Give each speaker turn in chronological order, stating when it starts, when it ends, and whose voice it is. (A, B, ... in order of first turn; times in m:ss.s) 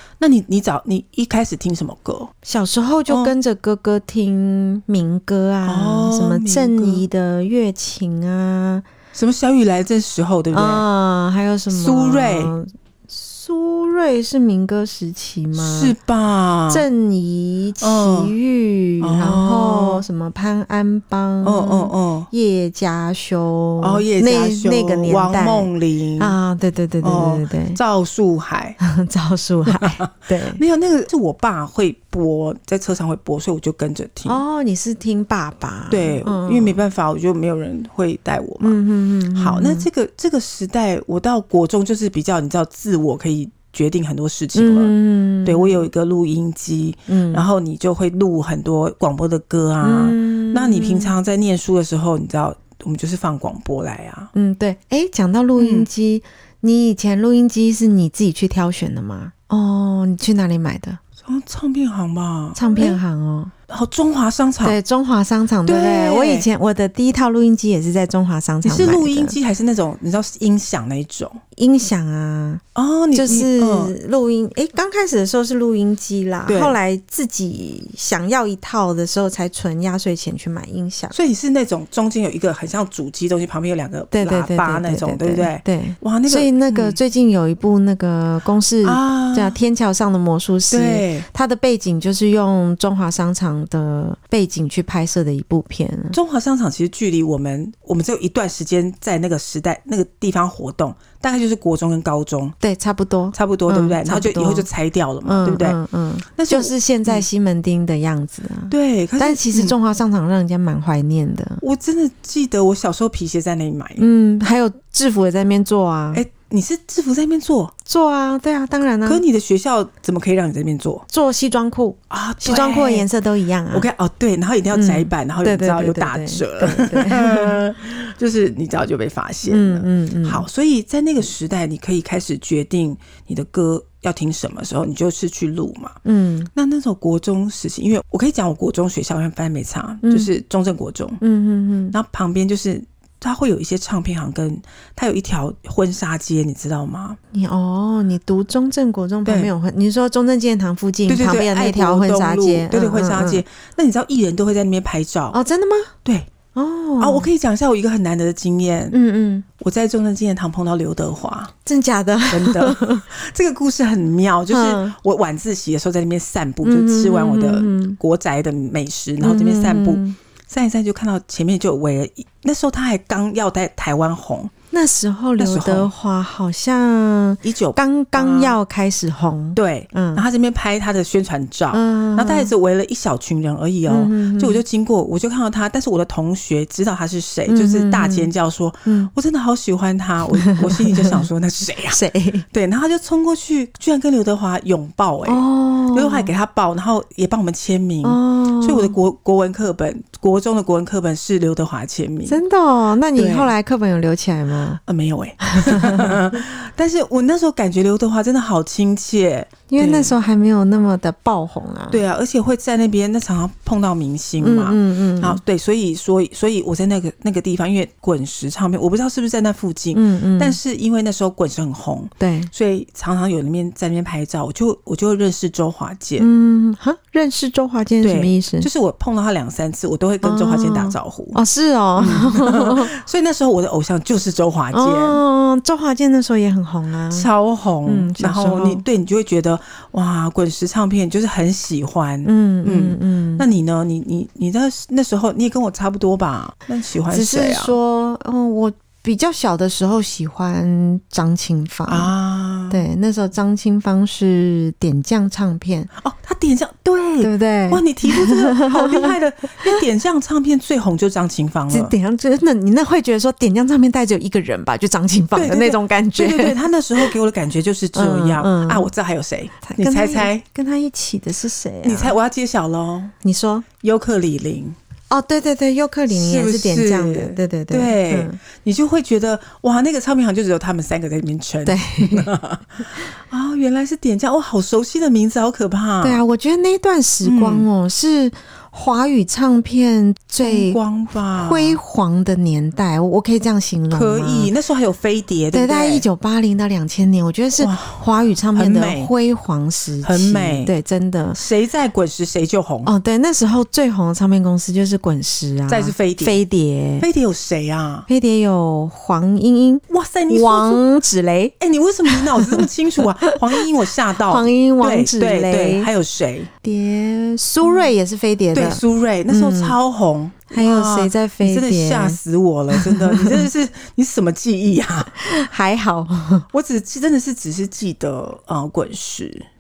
0:00.2-0:02.3 A
0:02.4-0:08.9 B
0:03.1-0:03.3 A
0:05.7-0:07.0 A
0:09.1-0:10.8 A
0:10.5-0:16.0 B
0:11.7-0:12.5 A
0:15.6-0:16.9 A
0:16.7-0:27.8 B
0:17.8-0:18.3 A
0:19.0-0:20.1 A
0:21.4-0:22.3 A
0:23.8-0:26.4 A
0:27.0-0:28.8 A
0:28.8-0:30.6 B
0:29.7-0:34.4 A
0:34.3-0:36.8 B
0:35.9-0:38.8 A
0:38.6-0:39.9 B
0:39.3-0:44.9 A
0:44.5-0:45.8 B
0:45.4-0:54.3 A
0:47.1-0:47.4 B
0:49.8-0:51.1 B
0:54.3-1:01.0 B
0:55.6-0:55.9 A
1:01.2-1:03.0 A
1:02.6-1:03.5 B
1:03.7-1:04.8 A
1:04.6-1:09.4 B
1:05.6-1:06.5 A
1:08.6-1:11.4 A
1:11.6-1:12.6 B
1:12.8-1:13.9 A
1:13.1-1:21.2 B
1:16.5-1:16.8 A
1:21.1-1:27.0 A
1:24.1-1:36.2 B
1:28.8-1:29.6 A
1:30.7-1:31.3 A
1:36.1-1:42.6 A
1:42.6-1:44.7 B
1:43.3-1:45.8 A
1:45.2-1:51.6 B
1:46.4-1:47.3 A
1:48.7-1:49.8 A
1:51.6-1:54.0 A
1:54.0-1:56.2 B
1:56.1-1:57.7 A
1:57.9-1:59.2 B
1:59.0-2:01.0 A
2:01.1-2:03.9 B
2:02.1-2:03.1 A
2:03.7-2:16.0 A
2:04.7-2:07.6 B
2:09.5-2:10.5 B
2:16.0-2:16.5 B
2:16.6-2:21.2 A
2:20.0-2:20.3 B
2:21.2-2:22.0 B
2:21.9-2:27.2 A
2:27.3-2:33.4 B
2:29.2-2:29.5 A
2:31.1-2:35.4 A
2:35.3-2:35.9 B
2:36.0-2:36.3 A
2:36.6-2:37.3 B
2:37.0-2:39.0 A
2:38.9-2:39.5 B
2:39.6-2:41.5 A
2:41.6-2:43.0 B
2:42.3-2:54.5 A
2:44.5-2:45.0 B
2:46.6-2:48.0 B
2:49.2-2:50.2 B
2:54.7-3:00.2 B
2:55.4-2:55.9 A
2:57.4-2:58.6 A
2:59.6-3:22.4 A
3:01.7-3:02.5 B
3:03.9-3:04.6 B
3:07.5-3:08.3 B
3:08.8-3:09.1 B
3:10.4-3:11.2 B
3:11.9-3:12.4 B
3:15.2-3:16.3 B
3:18.0-3:19.0 B
3:22.3-3:24.8 B
3:23.2-3:23.5 A
3:24.9-3:30.2 A
3:25.4-3:26.2 B
3:29.7-3:32.0 B
3:31.9-3:46.3 A
3:34.4-3:35.4 B
3:39.9-3:40.6 B
3:42.2-3:42.5 B
3:46.2-3:48.7 B
3:48.0-3:51.4 A
3:50.2-3:52.9 B
3:52.0-3:55.2 A
3:54.7-3:57.3 B
3:57.1-4:07.8 A
3:57.9-3:58.8 B
4:02.2-4:03.5 B
4:07.1-4:12.1 B
4:11.9-4:12.8 A
4:12.7-4:15.9 B
4:16.0-4:21.9 A
4:17.2-4:19.1 B
4:21.7-4:27.1 B
4:25.3-4:30.4 A
4:28.0-4:28.9 B
4:29.6-4:32.2 B
4:31.8-4:33.1 A
4:33.2-4:33.7 B
4:33.8-4:34.8 A
4:35.1-4:38.4 B
4:36.1-4:46.2 A
4:41.6-4:42.3 B
4:46.0-4:50.8 B
4:47.2-4:47.7 A
4:50.4-4:51.8 A
4:51.3-4:54.5 B
4:53.9-4:56.1 A
4:55.5-5:01.4 B
4:57.6-4:59.1 A
5:00.0-5:00.7 A
5:01.4-5:02.9 A
5:02.8-5:07.1 B
5:05.7-5:06.4 A
5:07.0-5:08.1 A
5:08.1-5:11.6 B
5:09.9-5:10.8 A
5:11.6-5:16.5 A
5:12.1-5:12.7 B
5:13.2-5:13.6 B
5:14.3-5:15.9 B
5:16.6-5:19.8 B
5:18.5-5:25.1 A
5:20.5-5:22.2 B
5:22.7-5:23.5 B
5:25.2-5:26.5 B
5:26.5-5:29.5 A